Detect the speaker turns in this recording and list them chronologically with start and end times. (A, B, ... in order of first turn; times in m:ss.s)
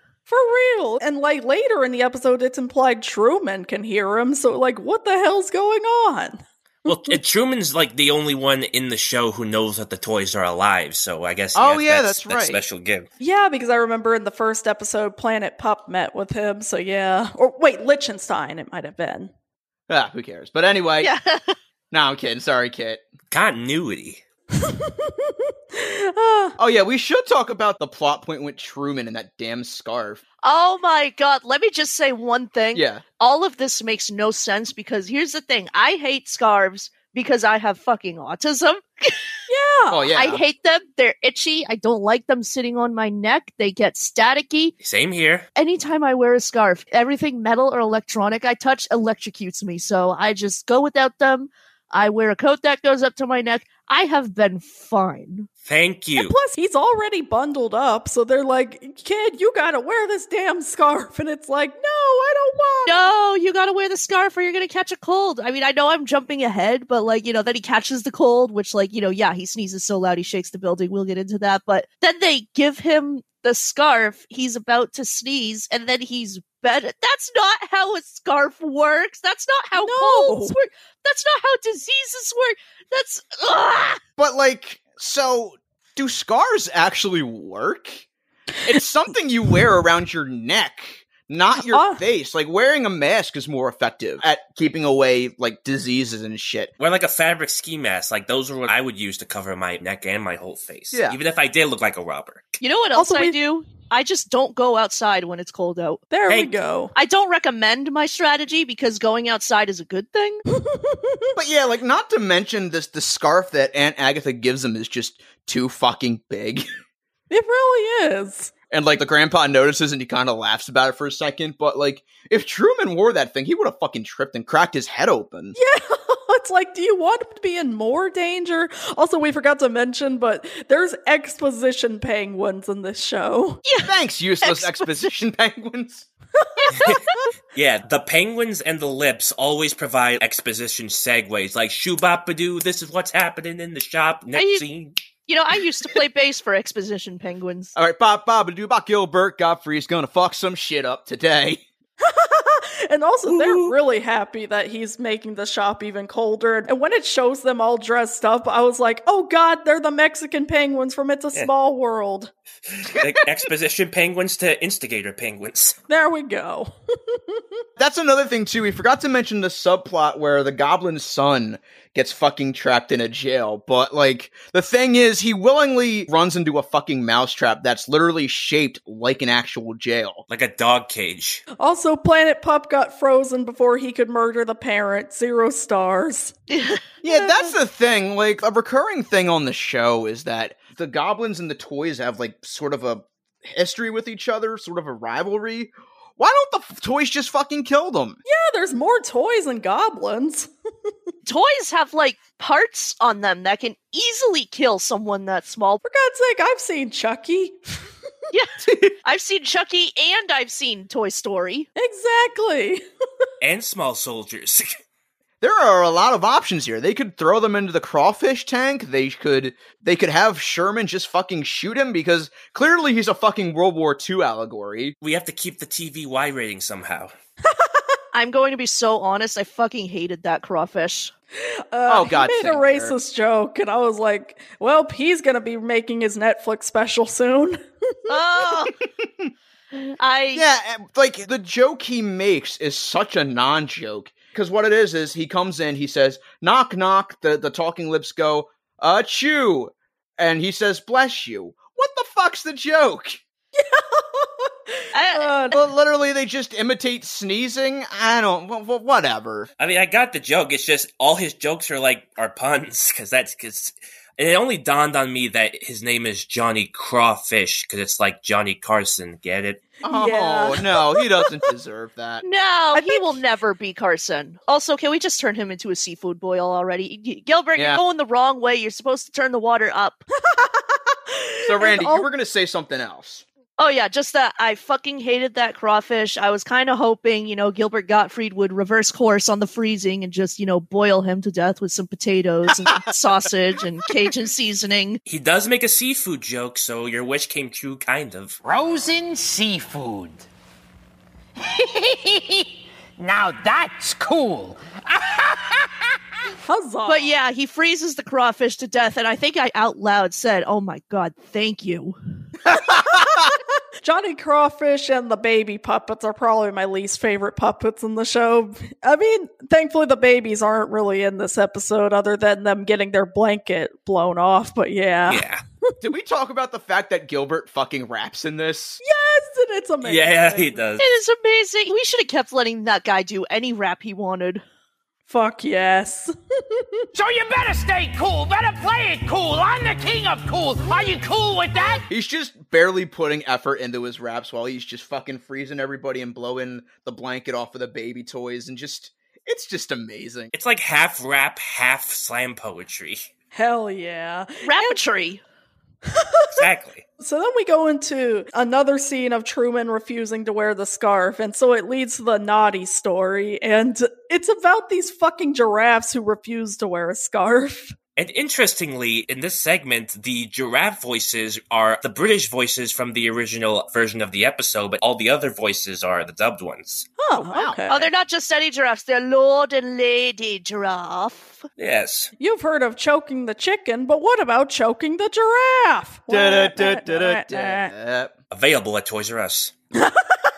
0:00.3-0:07.2 A
0:06.8-0:13.1 B
0:11.5-0:12.6 C
0:13.2-0:19.3 A
0:19.9-0:21.1 C
0:21.0-0:21.6 D
0:21.9-0:23.0 C
0:23.3-0:24.2 B
0:24.5-0:26.6 A
0:26.6-0:30.2 C
0:30.4-0:39.2 D
0:32.7-0:33.0 C
0:39.5-0:40.0 A
0:39.9-0:40.4 C
0:40.1-0:44.7 D
0:44.8-0:45.4 B
0:45.6-0:55.5 D
0:55.6-0:56.4 B
0:56.2-1:03.1 A
1:02.8-1:24.0 D
1:19.8-1:20.5 A
1:24.2-1:28.0 C
1:28.6-1:36.7 C
1:31.5-1:32.0 A
1:36.8-1:42.6 B
1:40.9-1:41.2 C
1:42.6-1:46.0 D
1:42.9-1:43.4 A
1:46.1-1:46.9 A
1:46.9-1:50.4 D
1:50.5-1:51.4 A
1:51.4-1:56.7 C
1:57.3-1:58.5 A
1:58.7-2:05.6 C
2:05.6-2:13.6 A
2:13.6-2:13.9 D
2:13.8-2:16.1 C
2:14.4-2:14.9 D
2:16.4-2:16.8 A
2:16.6-2:17.2 D
2:17.5-2:25.0 B
2:24.3-2:24.6 D
2:25.3-2:27.7 D
2:27.7-2:31.6 C
2:32.0-2:42.3 A
2:42.7-2:45.8 B
2:42.8-2:43.3 C
2:45.9-2:47.6 A
2:47.8-3:00.2 C
3:00.3-3:01.4 B
3:01.6-3:06.3 A
3:06.5-3:06.8 D
3:07.0-3:18.2 C
3:07.0-3:07.5 A
3:18.2-3:20.5 A
3:21.2-3:25.8 D
3:25.8-3:27.9 A
3:28.3-3:31.7 D
3:28.7-3:28.9 C
3:31.8-3:32.8 A
3:33.4-3:34.8 B
3:35.4-3:44.9 C
3:45.0-3:47.1 B
3:47.5-3:47.9 A
3:48.1-3:51.1 D
3:51.4-3:58.2 A
3:51.9-3:53.0 C
3:58.1-3:58.8 D
3:59.0-3:59.3 C
3:59.7-4:00.4 D
4:00.3-4:13.2 C
4:13.6-4:15.5 A
4:14.9-4:15.5 D
4:15.5-4:19.5 C
4:19.6-4:29.6 B
4:29.8-4:32.2 C
4:29.9-4:31.2 A
4:32.2-4:40.0 D
4:32.7-4:33.1 A
4:37.5-4:37.8 C
4:40.2-4:42.1 A
4:41.4-4:43.2 C
4:43.6-4:55.0 D
4:55.1-4:58.4 B
4:58.4-5:00.3 E
5:01.4-5:05.9 E
5:06.4-5:07.1 A
5:06.9-5:12.0 D
5:12.5-5:13.3 C
5:13.8-5:25.7 A
5:25.1-5:25.4 B
5:25.8-5:28.8 C
5:28.8-5:30.6 A
5:29.8-5:30.9 B
5:30.8-5:34.4 D
5:35.1-5:36.9 A
5:36.9-5:41.8 E
5:41.9-5:50.3 C
5:50.3-5:53.1 B
5:53.3-5:54.8 A
5:54.4-5:55.2 D
5:55.9-5:56.3 A
5:56.4-5:56.8 B
5:57.0-6:07.8 A
6:08.0-6:16.9 B
6:17.0-6:17.8 A
6:17.1-6:17.6 C
6:17.7-6:21.4 D
6:21.6-6:22.1 B
6:22.2-6:27.7 A
6:26.1-6:28.1 C
6:28.3-6:29.5 B